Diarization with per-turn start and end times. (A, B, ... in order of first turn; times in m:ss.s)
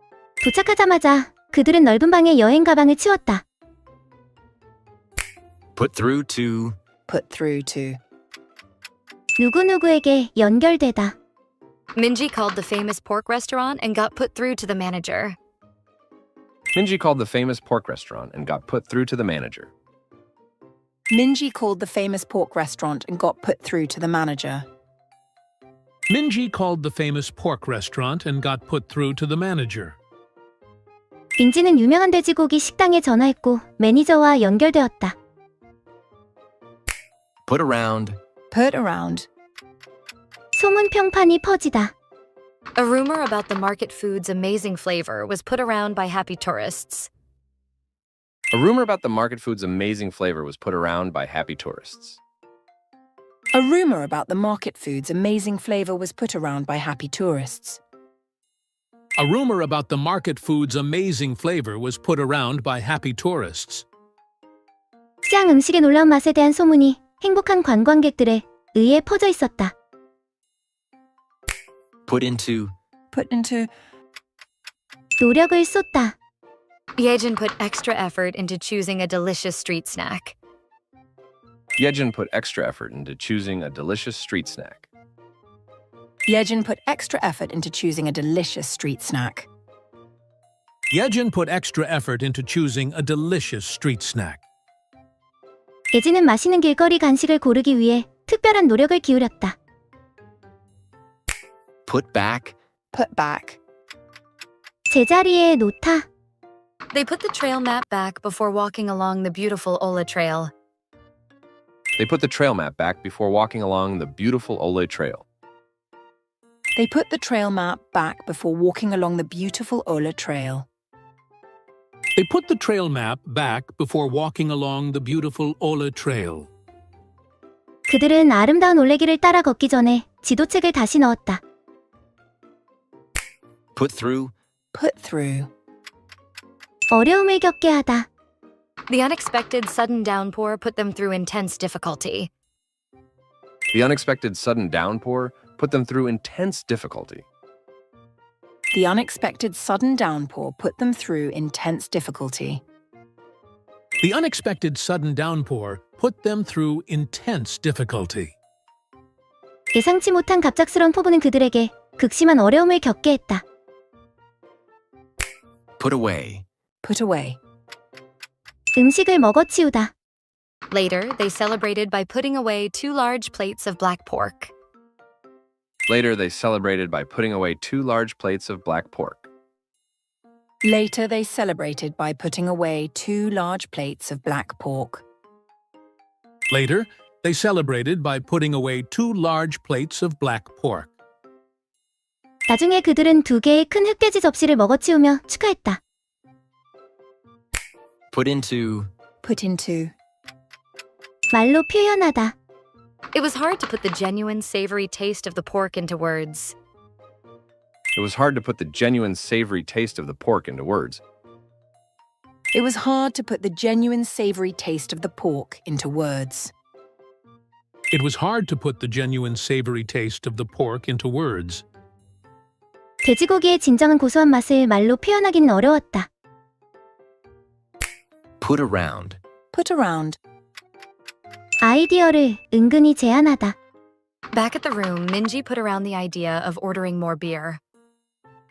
0:00.4-0:03.4 A
0:05.8-0:06.8 B
0:07.1-0:08.0 C
0:09.4-0:11.2 A
0:12.0-0:15.4 D
0:16.8-0:19.7 E
0:21.1-0:24.7 C
0:26.1-0:30.0 F
0:31.4-0:35.2 A
0:37.5-0:38.2 B
0:38.5-0:39.3 C
0:40.5-0:41.9 A
0:42.8-0:47.1 D
0:48.5-0:52.2 E
0:53.5-0:57.8 C
0:59.2-1:03.8 F
1:05.2-1:09.7 A
1:12.1-1:12.7 B
1:13.1-1:13.7 C
1:15.2-1:16.2 A
1:17.0-1:20.4 D
1:21.8-1:24.9 E
1:26.3-1:29.5 C
1:30.9-1:34.4 F
1:35.9-1:39.6 A
1:41.9-1:42.6 B
1:42.9-1:43.6 C
1:44.9-1:46.1 A
1:46.9-1:50.5 D
1:52.0-1:55.2 E
1:56.8-2:00.7 C
2:02.2-2:06.5 F
2:07.9-2:11.4 A
2:13.8-2:14.3 B
2:14.7-2:15.5 C
2:16.9-2:18.1 A
2:18.9-2:22.3 D
2:23.7-2:27.2 E
2:28.7-2:32.6 C
2:34.0-2:38.4 F
2:39.7-2:43.4 A
2:45.8-2:46.5 B
2:46.8-2:47.4 C
2:48.8-2:49.9 A
2:50.7-2:54.5 D
2:55.9-2:59.3 E
3:00.6-3:05.0 C
3:06.5-3:10.9 F
3:12.5-3:15.8 A
3:18.1-3:18.9 B
3:19.2-3:19.9 C
3:21.3-3:22.4 A
3:23.1-3:26.6 D
3:28.0-3:31.0 E
3:32.5-3:36.5 C
3:37.9-3:41.6 F
3:43.0-3:46.1 A
3:48.4-3:49.2 B
3:49.5-3:50.2 C
3:51.6-3:53.6 A
3:54.3-3:57.6 D